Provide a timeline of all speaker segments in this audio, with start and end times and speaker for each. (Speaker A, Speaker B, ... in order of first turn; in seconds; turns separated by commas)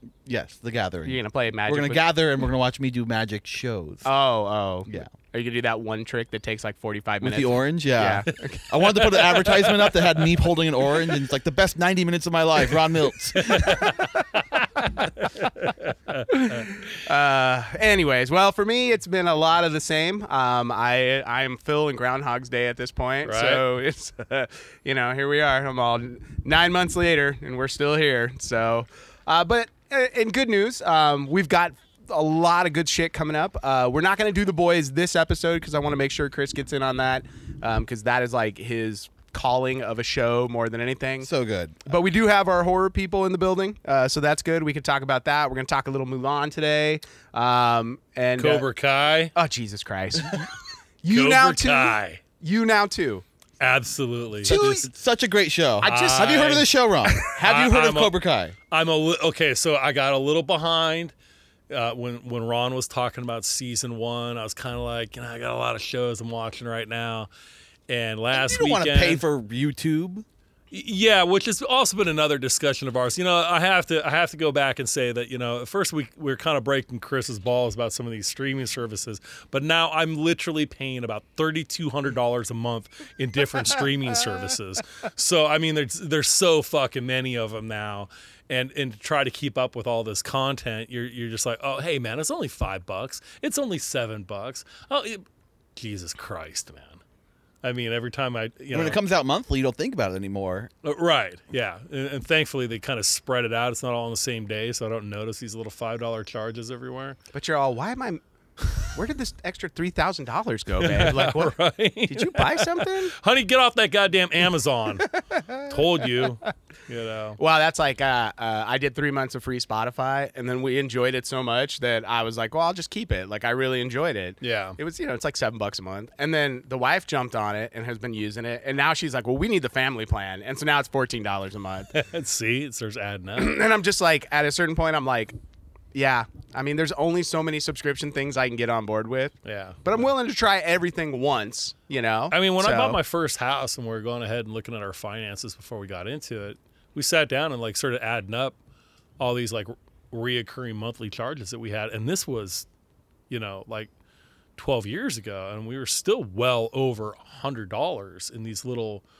Speaker A: 0.2-4.1, Speaker B: 1.0-2.1, Speaker B: 4.0-8.6, Speaker A: 7.2-13.9, Speaker C: 9.0-10.1, Speaker C: 13.3-16.7, Speaker B: 16.3-41.3, Speaker C: 23.2-23.6, Speaker A: 41.2-41.8, Speaker B: 41.9-48.7, Speaker C: 48.4-49.3, Speaker B: 49.3-50.5, Speaker B: 51.0-53.2, Speaker C: 51.1-52.2, Speaker C: 53.6-54.9, Speaker B: 54.4-54.9, Speaker A: 54.4-58.5, Speaker B: 55.8-56.6, Speaker C: 55.9-58.1, Speaker C: 58.7-61.1, Speaker C: 61.7-67.3, Speaker C: 67.9-69.2, Speaker A: 68.3-70.2, Speaker C: 70.7-95.2, Speaker C: 95.8-97.0, Speaker C: 97.6-99.0, Speaker A: 98.7-100.7, Speaker C: 100.8-107.2, Speaker B: 107.3-108.2, Speaker B: 108.8-111.5, Speaker C: 110.8-117.4, Speaker B: 112.0-113.1, Speaker B: 115.3-115.7, Speaker B: 117.4-132.0, Speaker C: 124.4-124.8, Speaker C: 131.9-133.6, Speaker B: 133.4-135.3, Speaker B: 135.9-143.0, Speaker C: 139.4-139.8, Speaker C: 142.3-148.6, Speaker C: 149.2-152.7, Speaker C: 153.3-153.9, Speaker C: 154.6-159.0